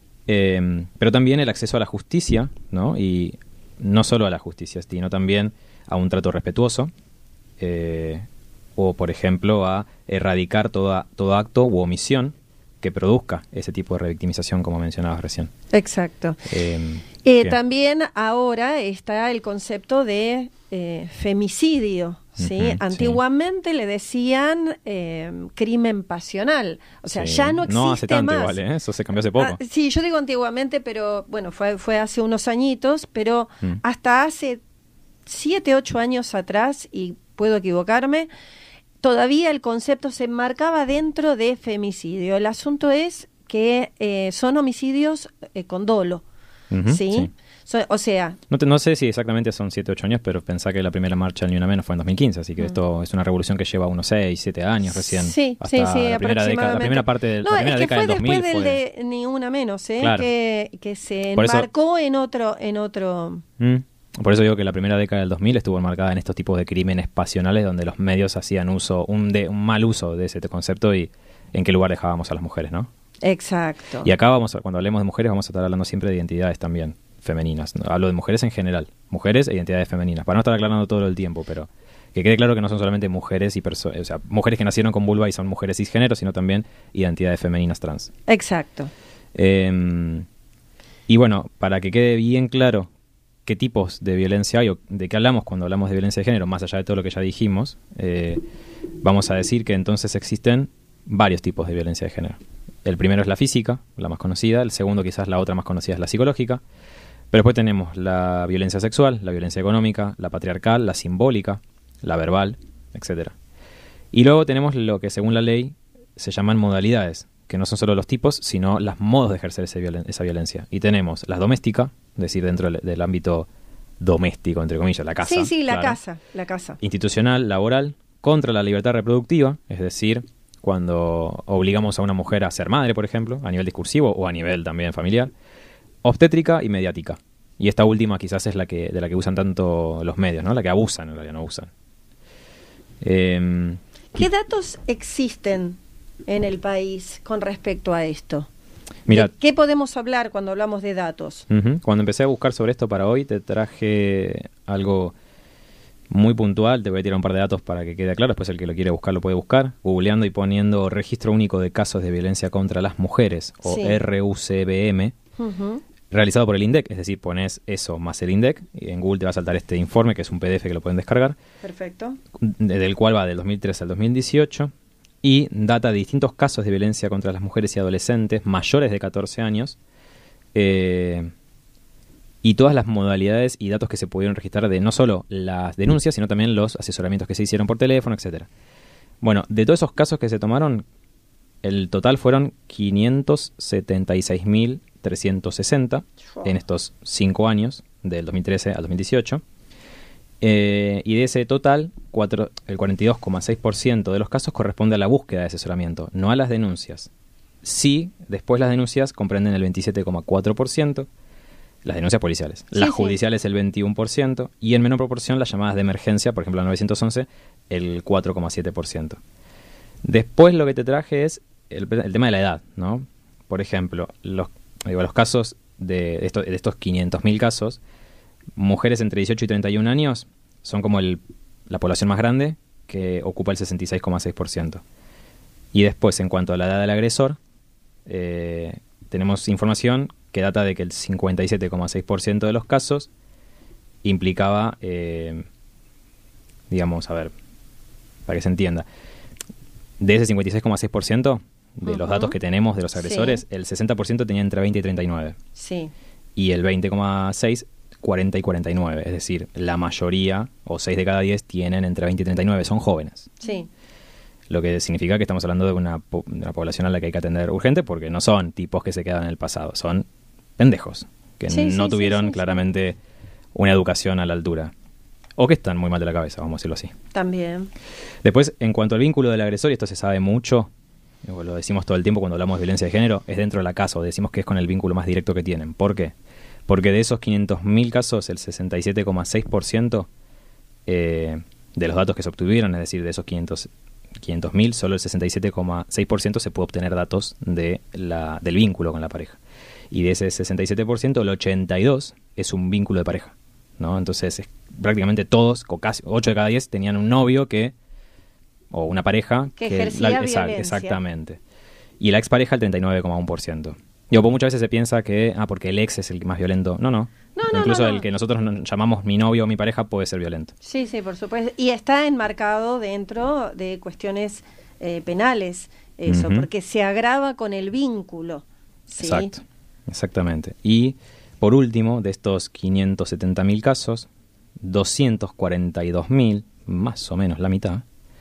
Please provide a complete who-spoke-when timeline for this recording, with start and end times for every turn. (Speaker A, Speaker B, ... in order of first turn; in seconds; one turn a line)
Speaker A: 0.3-6.9
Speaker A: 7.6-15.5
Speaker B: 15.7-16.4
Speaker A: 16.5-17.6
Speaker B: 17.2-28.6
Speaker A: 22.4-23.2
Speaker A: 27.1-29.6
Speaker B: 29.4-34.6
Speaker B: 35.3-38.3
Speaker B: 39.0-46.2
Speaker A: 46.7-47.3
Speaker B: 46.9-48.4
Speaker A: 48.5-58.8
Speaker B: 54.9-63.4
Speaker A: 60.0-60.3
Speaker A: 61.4-61.7
Speaker A: 63.6-72.9
Speaker B: 73.2-74.1
Speaker A: 74.0-88.1
Speaker B: 88.3-88.9
Speaker A: 89.3-90.3
Speaker A: 91.1-92.9
Speaker A: 93.5-98.4
Speaker A: 99.0-106.6
Speaker A: 107.3-113.3
Speaker A: 114.1-123.5
Speaker A: 124.0-126.0
Speaker B: 125.2-126.8
Speaker A: 126.8-135.3
Speaker A: 136.0-141.7
Speaker A: 143.0-144.3
Speaker B: 144.2-148.5
Speaker A: 149.1-149.3
Speaker B: 149.1-151.5
Speaker A: 151.5-155.2
Speaker A: 156.1-165.2
Speaker B: 163.7-164.0
Speaker B: 165.4-165.8
Speaker A: 166.1-171.4
Speaker B: 171.6-172.2
Speaker A: 172.4-174.7
Speaker A: 175.2-179.8
Speaker A: 180.5-181.3
Speaker A: 182.4-188.5
Speaker A: 189.2-190.8
Speaker A: 191.6-199.4
Speaker A: 200.4-207.1
Speaker A: 207.6-211.1
Speaker A: 211.8-219.2
Speaker B: 212.8-213.1
Speaker A: 220.0-227.8
Speaker A: 228.6-234.8
Speaker A: 235.7-237.4
Speaker A: 238.1-243.1
Speaker A: 244.0-245.4
Speaker A: 246.7-247.3
Speaker A: 248.3-248.9
Speaker A: 250.0-255.4
Speaker B: 251.9-252.4
Speaker B: 253.0-253.4
Speaker B: 255.6-255.9
Speaker A: 256.4-263.4
Speaker B: 263.4-263.7
Speaker A: 264.5-270.1
Speaker A: 270.6-273.0
Speaker B: 271.5-272.6
Speaker A: 273.6-274.7
Speaker A: 275.4-276.9
Speaker B: 277.1-277.7
Speaker A: 278.2-280.7
Speaker A: 281.2-286.1
Speaker A: 286.7-290.1
Speaker A: 290.9-299.4
Speaker A: 299.9-307.7
Speaker A: 308.7-311.4
Speaker B: 309.6-311.0
Speaker A: 312.0-320.5
Speaker B: 317.4-318.1
Speaker B: 320.6-329.3
Speaker A: 326.1-326.5
Speaker A: 329.0-334.1
Speaker A: 334.6-337.9